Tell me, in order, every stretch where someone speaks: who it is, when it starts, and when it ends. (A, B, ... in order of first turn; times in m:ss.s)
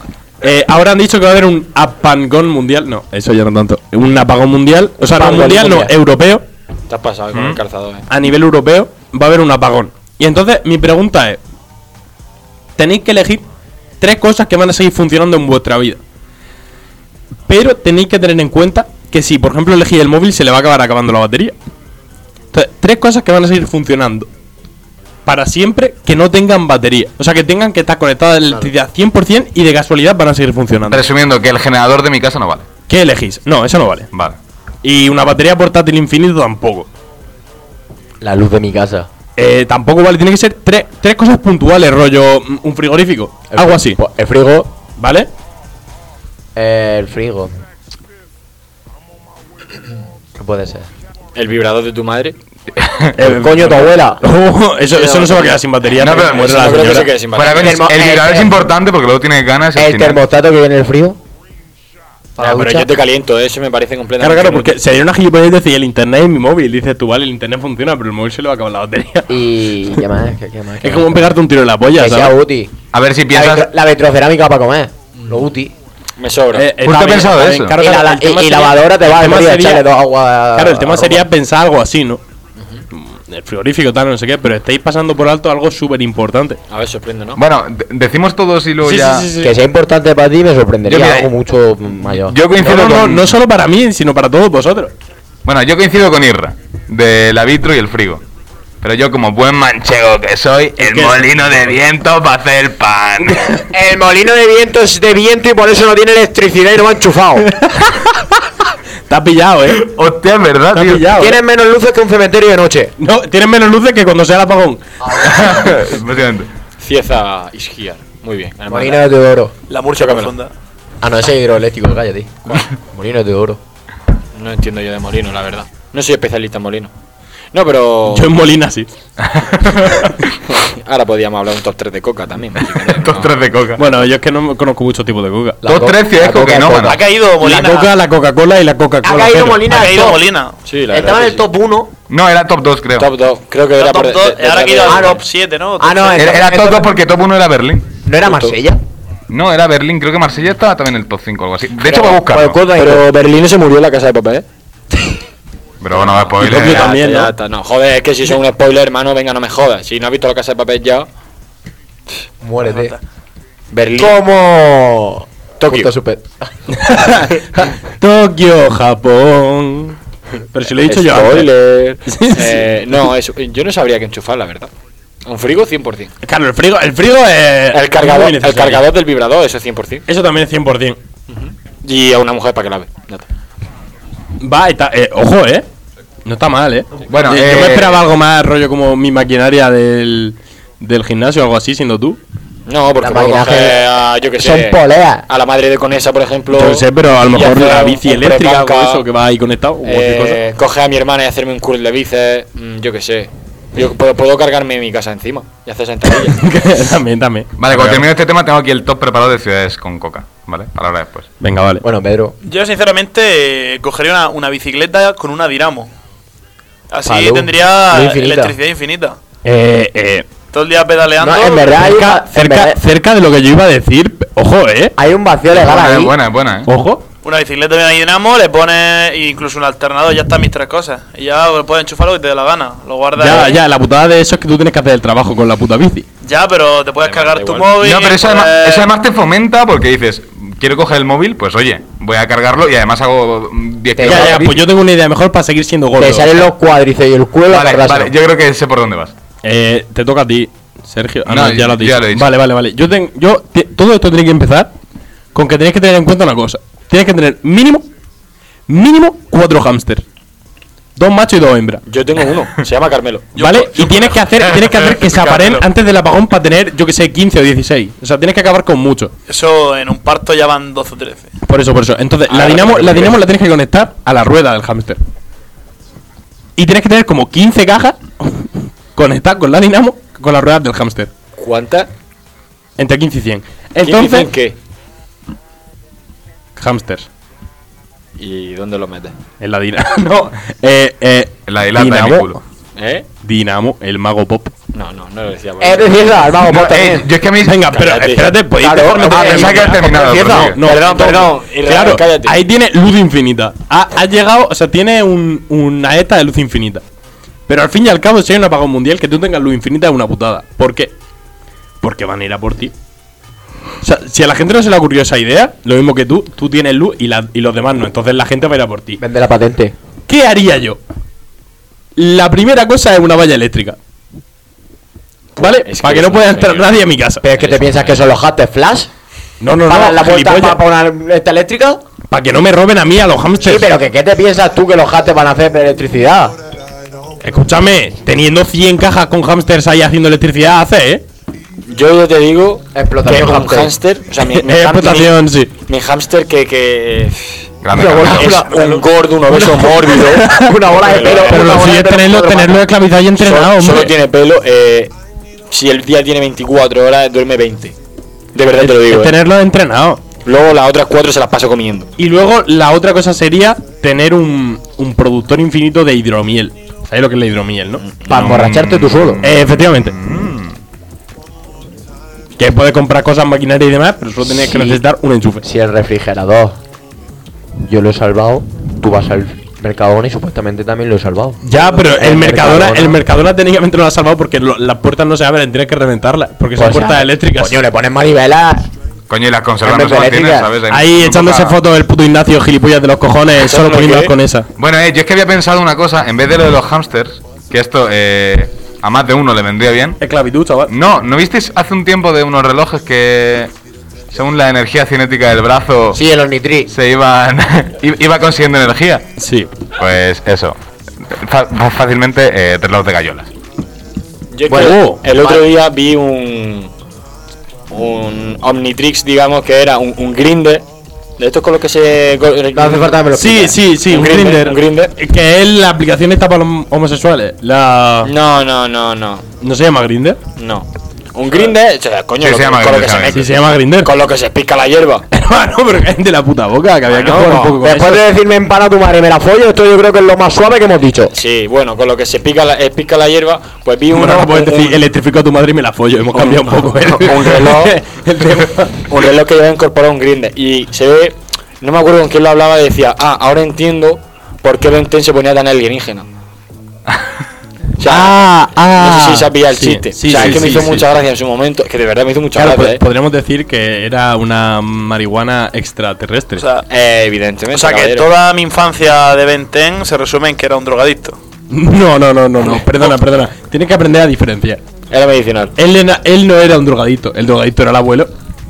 0:00.4-0:06.4 A
0:05.0-0:05.9 B
0:06.9-0:08.1 C
0:07.3-0:07.6 D
0:08.1-0:11.4 A
0:12.8-0:13.4 A
0:14.0-0:16.0 A
0:17.5-0:21.6 A
0:22.5-0:24.3 A
0:25.2-0:31.0 A
0:30.9-0:32.6 D
0:32.9-0:34.1 A
0:34.1-0:34.4 D
0:34.8-0:36.9 A
0:38.2-0:39.1 B
0:39.4-0:44.0 A
0:43.5-0:44.7 B
0:45.0-0:45.3 A
0:46.5-0:47.5 B
0:50.4-0:50.9 B
0:51.3-0:52.4 C
0:52.8-0:53.1 D
0:53.2-0:57.1 A
0:53.2-0:54.2 B
0:55.9-0:56.8 D
0:56.0-0:57.8 C
0:57.3-1:00.2 D
0:57.5-0:58.7 B
0:59.8-1:01.2 B
1:02.4-1:02.9 B
1:02.4-1:04.8 C
1:04.2-1:09.3 A
1:09.3-1:11.2 B
1:10.8-1:12.4 A
1:11.9-1:12.7 B
1:12.9-1:13.7 D
1:13.3-1:15.7 B
1:15.2-1:15.4 C
1:16.2-1:16.7 C
1:16.5-1:19.9 A
1:16.8-1:17.8 D
1:17.7-1:21.3 B
1:20.5-1:22.2 A
1:22.9-1:26.6 A
1:26.7-1:27.4 C
1:27.4-1:29.3 D
1:28.8-1:29.6 A
1:29.4-1:32.4 B
1:30.8-1:31.3 D
1:32.2-1:33.3 D
1:32.6-1:34.9 A
1:35.4-1:38.2 D
1:38.8-1:43.5 D
1:40.8-1:41.5 A
1:43.2-1:43.6 A
1:43.7-1:47.5 B
1:47.5-1:48.3 A
1:49.1-1:49.8 A
1:49.7-1:51.1 D
1:50.7-1:51.4 A
1:51.1-1:52.9 B
1:53.0-1:55.8 A
1:55.1-1:56.5 D
1:56.8-1:59.0 C
1:58.7-1:59.5 B
1:59.7-2:00.5 E
2:00.0-2:00.3 C
2:01.0-2:03.6 B
2:04.3-2:06.9 C
2:07.5-2:08.3 C
2:08.1-2:08.9 A
2:09.3-2:10.3 D
2:10.5-2:13.3 C
2:12.7-2:13.9 D
2:13.8-2:15.6 A
2:15.6-2:17.0 B
2:15.6-2:17.0 D
2:16.8-2:18.0 E
2:17.4-2:19.7 A
2:19.0-2:20.2 B
2:19.6-2:20.6 E
2:20.6-2:21.4 C
2:20.9-2:21.9 B
2:22.1-2:23.1 D
2:23.0-2:25.2 C
2:23.8-2:26.4 E
2:24.8-2:25.2 B
2:25.8-2:26.9 B
2:26.2-2:27.9 D
2:28.0-2:28.8 B
2:28.2-2:28.6 C
2:29.3-2:32.6 D
2:31.8-2:33.1 B
2:31.8-2:32.2 C
2:32.7-2:34.4 C
2:35.8-2:36.9 D
2:35.9-2:41.1 C
2:36.4-2:37.3 A
2:42.4-2:42.9 B
2:42.6-2:43.0 E
2:43.7-2:44.2 C
2:43.9-2:46.5 B
2:46.7-2:50.0 A
2:50.5-2:51.5 A
2:50.8-2:54.7 C
2:52.1-2:52.6 A
2:55.2-2:56.1 C
2:56.2-2:58.8 A
2:57.7-3:00.0 C
3:00.1-3:01.0 A
3:01.3-3:03.3 C
3:04.4-3:05.6 A
3:06.2-3:12.2 A
3:07.1-3:08.0 D
3:12.7-3:19.0 C
3:13.0-3:15.2 B
3:16.5-3:20.4 A
3:19.8-3:26.5 C
3:26.2-3:28.0 A
3:27.6-3:31.3 D
3:31.4-3:31.8 A
3:31.8-3:32.3 B
3:32.4-3:35.9 E
3:36.9-3:39.2 E
3:37.0-3:38.6 B
3:39.4-3:40.2 A
3:40.5-3:41.9 E
3:41.2-3:42.8 B
3:41.8-3:44.9 A
3:45.0-3:46.1 B
3:45.5-3:46.7 D
3:46.6-3:47.0 A
3:47.2-3:53.6 E
3:53.2-3:56.0 A
3:56.2-3:58.9 E
3:57.0-3:57.8 C
3:57.8-4:04.6 D
4:03.9-4:04.5 B
4:04.0-4:06.4 A
4:06.0-4:08.1 B
4:07.5-4:09.1 D
4:09.4-4:14.7 A
4:11.2-4:12.3 D
4:15.3-4:17.9 A
4:18.7-4:20.0 A
4:21.0-4:21.8 A
4:21.9-4:23.3 C
4:23.3-4:25.7 E
4:23.4-4:29.1 A
4:29.3-4:31.3 E
4:31.4-4:35.0 A
4:32.3-4:33.2 C
4:36.6-4:41.1 A
4:41.4-4:41.9 C
4:42.8-4:44.3 A
4:43.8-4:44.6 C
4:46.6-4:47.1 A
4:48.2-4:49.1 C
4:49.4-4:52.4 A
4:51.4-4:52.4 D
4:52.8-4:53.0 C
4:53.2-4:54.5 A
4:54.7-4:56.3 C
4:55.6-4:57.1 B
4:56.4-4:57.7 D
4:57.4-5:06.8 A
4:57.7-4:58.3 C
4:58.6-5:00.7 B
4:59.1-5:00.6 D
5:00.6-5:02.4 C
5:07.5-5:10.9 A
5:11.8-5:12.7 A
5:13.8-5:19.0 A
5:19.0-5:19.7 B
5:20.1-5:20.8 A
5:22.0-5:23.8 A
5:25.4-5:27.2 A
5:25.4-5:28.1 C
5:27.2-5:28.9 B
5:29.4-5:30.6 A
5:29.6-5:31.8 B
5:32.1-5:33.7 A
5:33.4-5:36.4 B
5:37.2-5:41.0 A
5:41.7-5:47.5 C
5:42.7-5:43.7 B
5:44.2-5:45.5 A
5:47.6-5:48.4 D
5:47.7-5:52.6 B
5:48.0-5:51.7 C
5:48.5-5:48.8 E
5:49.6-5:50.6 A
5:51.1-5:53.9 A
5:53.2-5:54.9 C
5:55.5-5:57.7 C
5:58.3-5:59.1 C
5:58.6-6:00.0 A
6:00.2-6:01.9 C
6:02.0-6:07.8 A
6:07.8-6:08.3 C
6:08.1-6:09.2 B
6:08.1-6:10.6 D
6:09.2-6:09.9 A
6:12.4-6:15.4 A
6:14.3-6:14.8 B
6:15.4-6:16.6 B
6:17.6-6:23.0 B
6:21.4-6:27.6 A
6:26.6-6:28.7 B
6:29.1-6:31.6 D
6:29.6-6:30.5 B
6:30.7-6:34.5 A
6:33.4-6:34.1 C
6:34.6-6:40.0 D
6:40.0-6:40.7 A
6:40.7-6:43.5 D
6:44.1-6:46.0 D
6:45.9-6:46.7 B
6:46.7-6:49.0 D
6:49.2-6:49.5 A
6:49.8-6:53.3 D
6:54.3-6:56.7 C
6:54.5-6:55.5 B
6:54.5-6:55.0 A
6:57.7-7:00.6 C
7:01.2-7:03.0 C
7:02.5-7:03.6 B
7:03.1-7:08.1 A
7:03.8-7:04.9 C
7:08.0-7:09.2 C
7:09.4-7:10.2 A
7:10.4-7:15.0 C
7:12.2-7:13.2 D
7:13.1-7:13.9 A
7:15.1-7:18.0 A
7:16.9-7:17.6 C
7:17.6-7:21.1 B
7:21.1-7:24.8 C
7:23.9-7:28.8 A
7:26.1-7:27.8 C
7:28.9-7:36.1 C
7:37.8-7:38.2 C
7:37.8-7:40.8 A
7:38.8-7:42.8 C
7:42.4-7:46.4 A
7:46.4-7:46.7 E
7:46.7-7:48.1 C
7:47.5-7:51.2 E
7:51.5-7:54.6 A
7:54.9-7:55.5 C
7:55.6-7:58.1 A